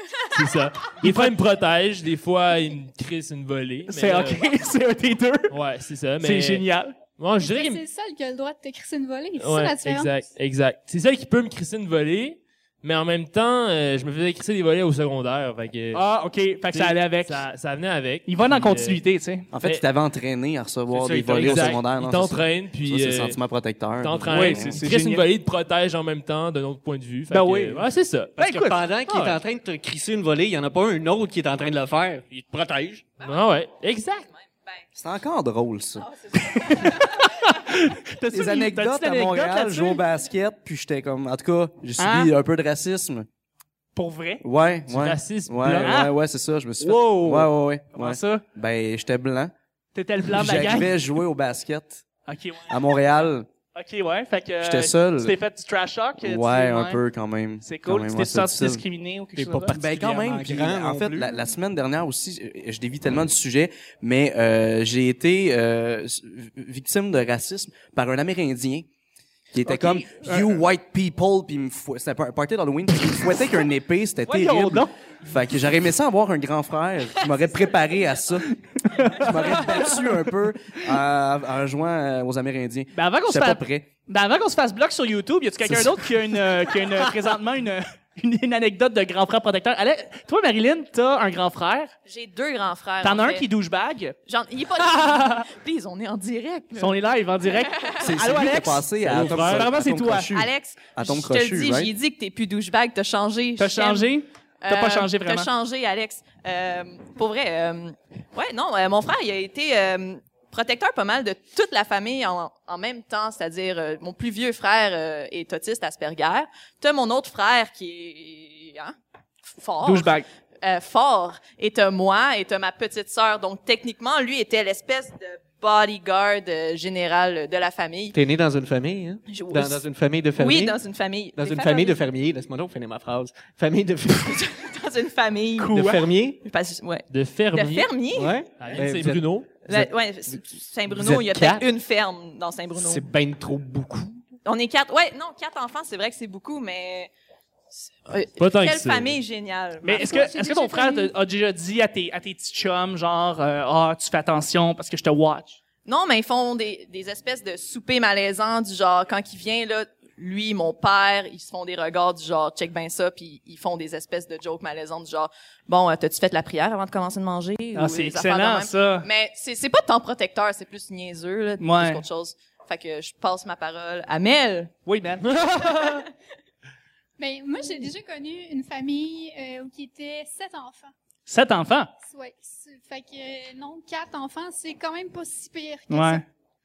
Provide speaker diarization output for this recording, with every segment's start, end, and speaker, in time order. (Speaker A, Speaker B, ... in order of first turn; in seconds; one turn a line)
Speaker A: 0.3-4.4
Speaker B: 1.0-1.3
Speaker B: 3.9-5.5
Speaker A: 5.5-6.7
Speaker B: 6.2-6.9
Speaker A: 7.2-7.8
Speaker C: 7.4-10.2
Speaker A: 9.4-16.0
Speaker B: 15.9-17.4
Speaker A: 16.7-19.0
Speaker B: 18.3-19.5
Speaker D: 19.5-24.8
Speaker A: 21.0-23.4
Speaker A: 24.0-28.3
Speaker B: 24.3-25.2
Speaker B: 27.3-27.8
Speaker B: 28.4-29.4
Speaker E: 28.4-33.1
Speaker A: 33.2-34.3
Speaker D: 34.9-36.1
Speaker B: 36.4-40.0
Speaker F: 36.6-37.0
Speaker D: 38.3-43.3
Speaker B: 42.0-42.3
Speaker B: 44.0-44.4
Speaker D: 44.4-49.5
Speaker A: 44.9-45.9
Speaker B: 45.8-46.1
Speaker B: 46.8-48.4
Speaker B: 49.9-50.9
Speaker D: 50.3-52.0
Speaker B: 52.3-52.8
Speaker D: 52.7-53.5
Speaker B: 53.7-57.0
Speaker D: 54.6-55.4
Speaker D: 56.2-58.8
Speaker B: 57.6-59.8
Speaker E: 59.3-61.3
Speaker D: 59.7-68.9
Speaker D: 69.5-78.5
Speaker B: 69.7-70.5
Speaker B: 74.2-74.9
Speaker B: 78.8-80.1
Speaker D: 79.0-83.9
Speaker B: 82.9-91.9
Speaker D: 85.6-86.0
Speaker F: 92.0-93.5
Speaker B: 93.0-94.1
Speaker F: 94.2-97.0
Speaker B: 94.8-95.5
Speaker B: 96.8-100.3
Speaker F: 97.5-98.1
Speaker D: 98.0-101.9
Speaker F: 100.3-128.2
Speaker B: 103.6-105.5
Speaker B: 119.8-120.2
Speaker E: 128.1-130.8
Speaker F: 129.3-132.0
Speaker E: 131.3-134.4
Speaker F: 134.1-138.4
Speaker B: 135.6-136.0
Speaker E: 135.7-136.4
Speaker A: 137.1-137.9
Speaker E: 138.1-140.3
Speaker A: 138.6-139.6
Speaker F: 139.7-143.1
Speaker E: 140.9-141.7
Speaker E: 142.8-144.2
Speaker F: 144.4-147.1
Speaker F: 147.8-150.3
Speaker A: 148.4-149.2
Speaker B: 149.8-155.6
Speaker C: 150.0-151.1
Speaker F: 155.8-174.7
Speaker B: 167.7-169.1
Speaker B: 171.6-172.0
Speaker B: 174.8-176.0
Speaker C: 177.2-180.9
Speaker B: 181.3-181.9
Speaker C: 182.0-186.2
Speaker B: 185.9-186.2